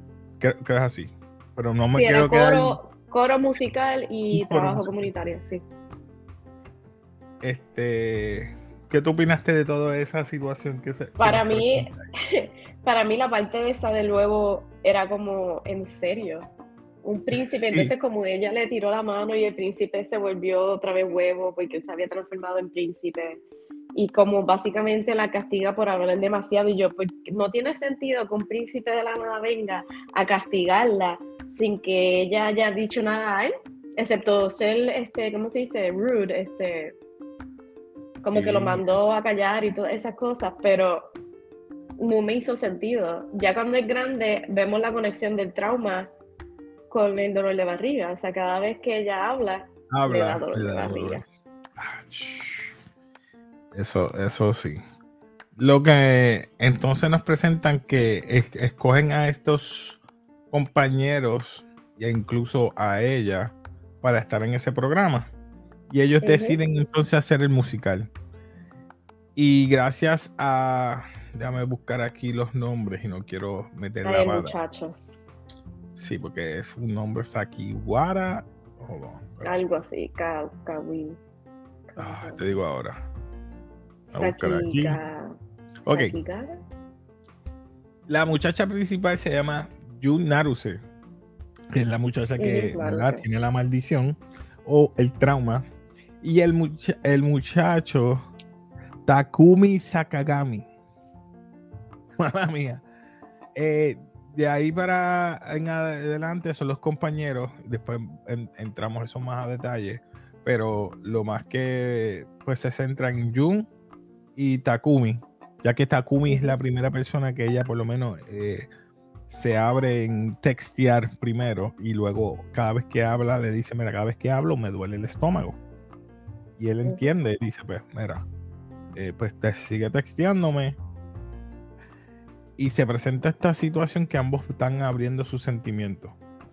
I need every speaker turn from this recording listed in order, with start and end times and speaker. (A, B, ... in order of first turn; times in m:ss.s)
0:00.4-0:02.8 A
0:01.9-0:05.6 B
0:04.3-0:05.1 A
0:07.4-0:11.9 A
0:11.2-0:16.5 B
0:17.0-0:23.4 B
0:17.3-0:17.9 A
0:23.9-0:37.0 B
0:38.2-0:41.1 B
0:38.3-0:39.0 A
0:42.0-0:46.1 B
0:46.9-0:51.2 B
0:49.9-0:51.2 A
0:51.8-0:52.7 A
0:53.7-0:54.8 A
0:55.6-1:00.0 A
1:00.5-1:05.3 A
1:05.9-1:08.1 A
1:06.2-1:06.6 B
1:09.4-1:14.5 A
1:14.0-1:14.9 B
1:16.0-1:19.7 A
1:19.4-1:21.2 B
1:21.9-1:22.4 B
1:22.0-1:23.0 A
1:24.1-1:26.6 B
1:24.1-1:25.0 A
1:25.8-1:26.2 A
1:28.1-1:30.8 A
1:31.7-1:35.6 A
1:32.4-1:33.2 B
1:36.2-1:38.2 A
1:39.0-1:40.7 A
1:42.2-1:42.8 A
1:43.5-1:53.7 A
1:54.4-1:58.7 A
1:56.2-1:56.6 B
1:59.3-2:05.6 A
2:06.6-2:08.2 A
2:08.9-2:10.8 A
2:12.6-2:16.2 A